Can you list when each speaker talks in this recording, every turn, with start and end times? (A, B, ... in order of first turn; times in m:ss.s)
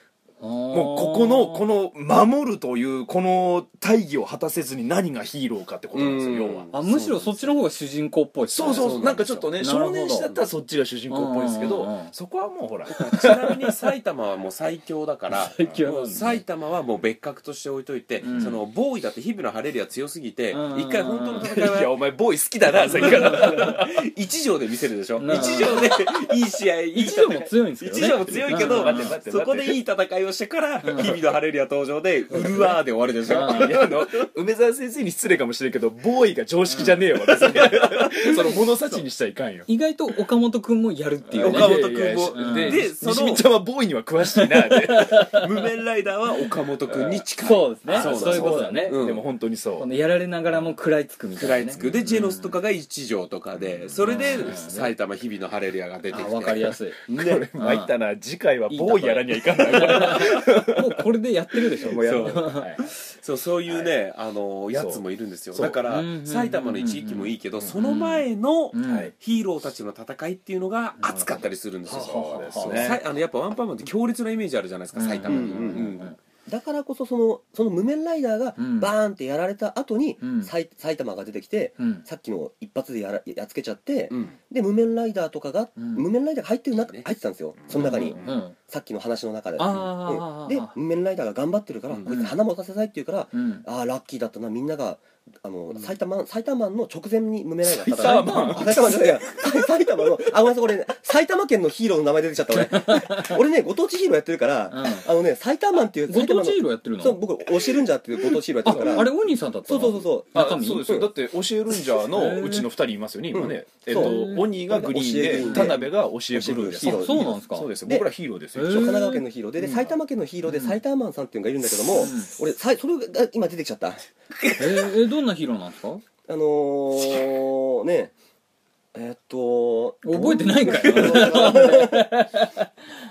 0:00.4-0:01.6 A
0:00.7-0:06.7 B
0:05.9-0:07.6 C
0:06.7-0:10.3 A
0:08.5-0:13.7 B
0:08.7-0:09.5 C
0:11.1-0:12.1 A
0:12.9-0:22.0 C
0:15.3-0:16.4 A
0:15.6-0:16.3 B
0:18.2-0:18.6 A
0:20.5-0:21.7 A
0:21.4-0:24.1 B
0:22.7-0:34.3 C
0:22.9-0:23.7 A
0:25.2-0:26.0 A
0:25.3-0:25.9 B
0:26.9-0:29.1 A
0:28.3-0:29.8 B
0:30.8-0:31.2 A
0:32.3-0:32.7 A
0:33.3-0:39.7 B
0:33.3-0:33.8 A
0:37.2-0:39.0 C
0:39.7-0:42.8 A
0:41.3-0:45.4 B
0:41.4-0:43.5 C
0:44.4-0:45.5 A
0:45.3-0:49.2 C
0:46.9-0:47.2 B
0:47.4-0:49.0 A
0:47.9-0:49.9 B
0:49.8-0:52.5 A
0:51.4-0:57.5 C
0:51.8-0:52.2 B
0:53.6-0:54.5 B
0:54.0-0:54.9 A
0:56.1-0:57.0 A
0:57.1-1:01.0 B
0:57.6-0:57.9 A
0:58.7-1:02.7 A
0:59.7-1:00.4 C
1:01.8-1:02.9 B
1:02.0-1:16.2 C
1:03.7-1:03.9 B
1:04.7-1:05.0 B
1:05.5-1:05.8 B
1:05.9-1:09.1 A
1:08.9-1:09.1 B
1:11.9-1:13.0 B
1:11.9-1:13.0 A
1:15.0-1:16.2 A
1:15.3-1:15.9 D
1:16.5-1:49.1 D
1:18.6-1:18.9 A
1:20.2-1:20.5 A
1:21.8-1:22.1 A
1:25.8-1:26.1 A
1:26.7-1:27.1 C
1:27.7-1:28.4 B
1:27.7-1:28.6 A
1:29.6-1:30.8 A
1:31.9-1:32.2 C
1:32.1-1:32.4 A
1:33.3-1:33.6 A
1:37.6-1:39.7 B
1:38.0-1:38.8 A
1:42.5-1:43.4 A
1:44.7-1:45.1 A
1:46.1-1:47.2 A
1:48.6-1:51.0 A
1:48.6-1:49.1 B
1:49.7-1:51.1 D
1:50.3-1:59.0 B
1:52.1-1:52.7 A
1:53.3-1:58.1 D
1:53.9-1:54.5 A
1:55.2-1:55.8 A
1:56.8-1:57.7 A
1:58.6-1:59.2 A
1:58.6-2:04.0 D
1:59.6-2:00.0 B
2:00.5-2:00.8 A
2:01.9-2:02.4 A
2:04.6-2:06.0 A
2:06.3-2:08.1 D
2:08.9-2:12.1 D
2:10.0-2:12.7 A